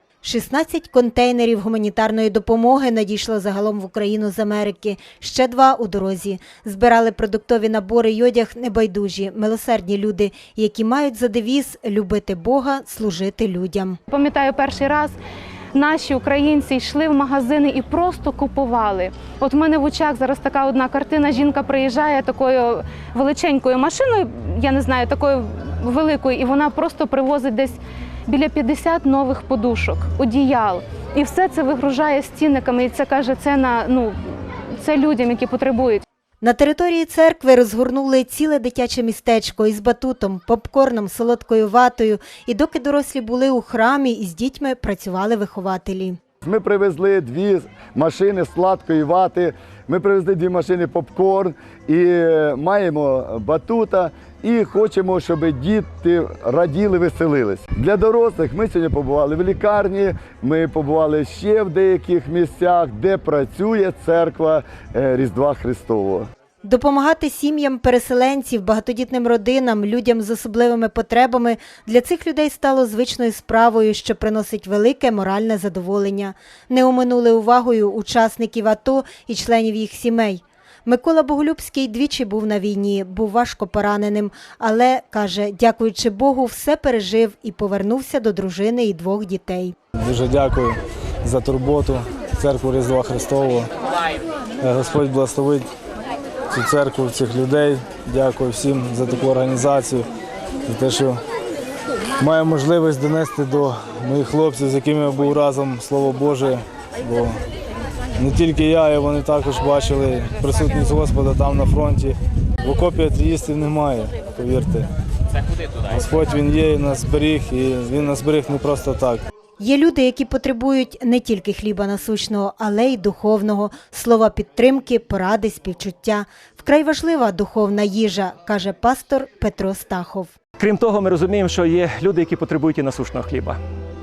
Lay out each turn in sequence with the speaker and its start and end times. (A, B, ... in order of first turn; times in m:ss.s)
0:00.2-0:14.0 A
0:14.1-0:15.2 B
0:15.7-0:36.0 B
0:36.4-0:46.2 A
0:46.4-1:06.3 C
1:06.6-1:29.7 A
1:30.0-1:33.7 D
1:34.6-1:35.7 D
1:36.5-1:40.1 D
1:40.6-1:41.2 D
1:42.2-1:47.4 D
1:48.2-1:54.9 D
1:55.9-1:59.2 D
1:59.6-2:10.3 A
2:10.6-2:13.6 E